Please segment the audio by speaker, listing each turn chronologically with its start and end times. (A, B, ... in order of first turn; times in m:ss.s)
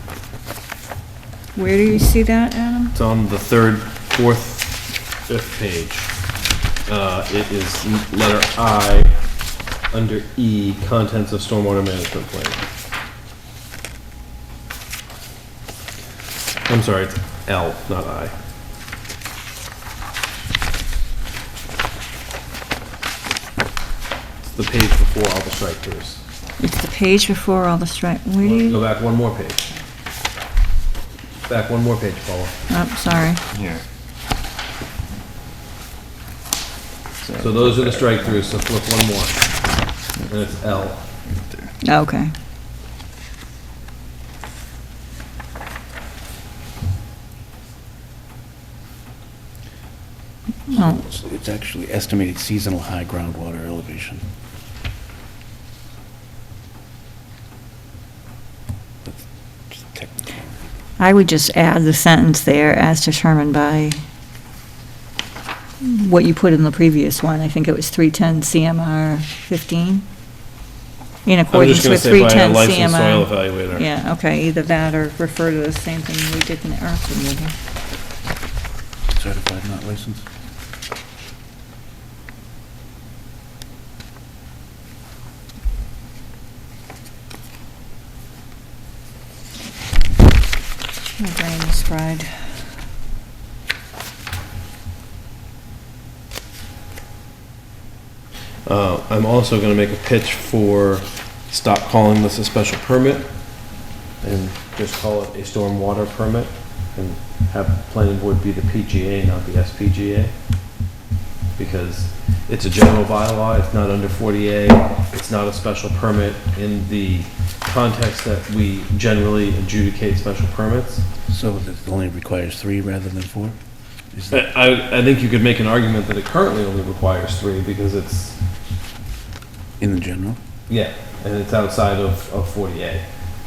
0:01.6-0:03.0 A
0:02.9-0:06.1 B
0:06.9-0:09.1 B
0:09.9-0:12.6 B
0:16.7-0:18.3 B
0:24.4-0:26.2 B
0:26.6-0:28.8 A
0:28.4-0:29.6 B
0:31.5-0:32.6 B
0:32.7-0:33.4 A
0:33.5-0:33.8 C
0:37.2-0:38.5 C
0:37.4-0:39.5 B
0:40.3-0:41.0 B
0:41.2-0:41.7 C
0:41.8-0:42.3 A
0:50.7-0:51.0 A
0:50.7-0:54.2 D
0:59.0-1:00.5 D
1:01.0-1:04.0 A
1:05.8-1:10.0 A
1:11.2-1:17.5 A
1:11.5-1:13.9 B
1:19.1-1:20.2 D
1:31.2-1:32.7 A
1:38.7-1:50.3 B
1:51.6-2:01.0 B
2:01.3-2:03.6 D
2:04.1-2:04.4 D
2:04.3-2:08.4 B
2:09.8-2:10.4 D
2:10.7-2:13.0 B